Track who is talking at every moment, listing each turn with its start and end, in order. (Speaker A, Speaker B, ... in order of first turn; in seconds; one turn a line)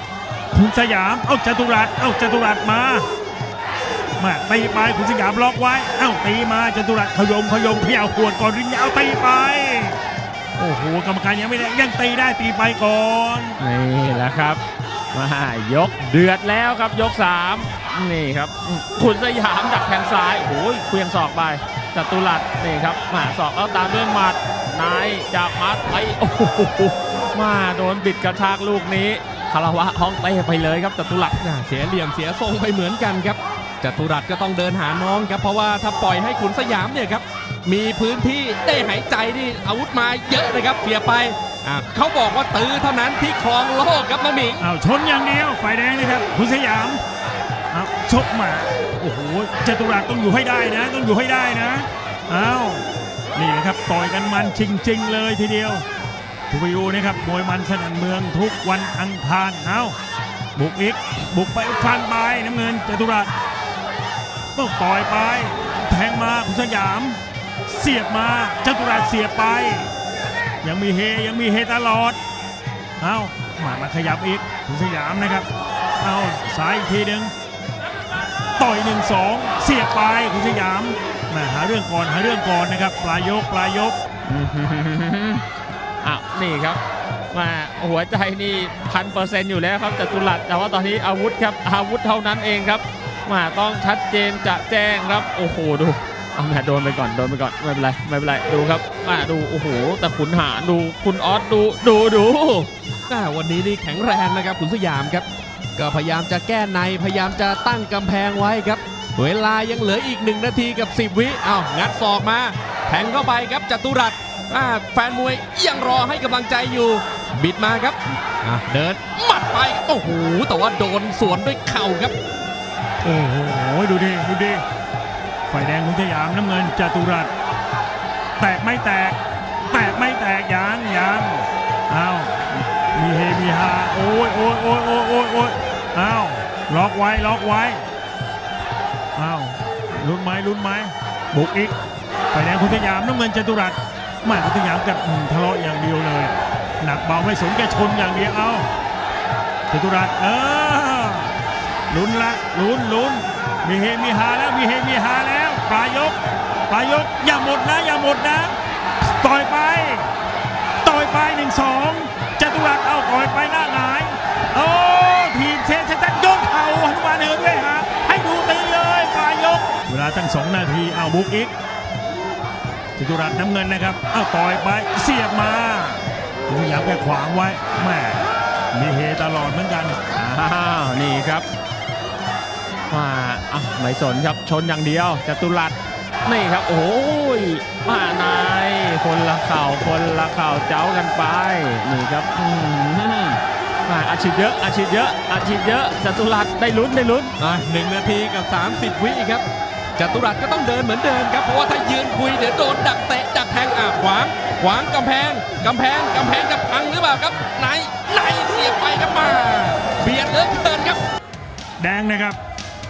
Speaker A: 0.5-3.0
Speaker A: 4.2-10.0
Speaker A: 10.6-13.6
Speaker B: 13.6-14.6
Speaker B: 15.1-31.4
Speaker C: 31.4-44.6
Speaker A: 44.6-47.0
Speaker A: 47.7-55.8
Speaker A: 56.5-60.0
Speaker A: 60.5-63.3
Speaker A: 64.5-69.9
Speaker A: 70.6-72.2
Speaker A: 73.0-75.5
Speaker A: 76.0-77.3
Speaker A: 78.6-84.0
Speaker B: 84.3-85.4
Speaker B: 86.0-102.7
Speaker C: 103.1-122.1
Speaker A: 123.0-124.6
Speaker A: 125.5-127.3
Speaker A: 128.4-129.2
Speaker A: 129.7-137.8
Speaker A: 139.2-141.8
Speaker A: 142.3-148.7
Speaker A: 149.7-151.3
Speaker A: 151.9-156.2
Speaker A: 156.7-160.1
Speaker A: 160.8-171.5
Speaker A: 172.9-180.0
Speaker B: 180.1-181.5
Speaker B: 182.9-197.3
Speaker C: 197.4-199.4
Speaker C: 200.0-211.0
Speaker A: 211.8-212.4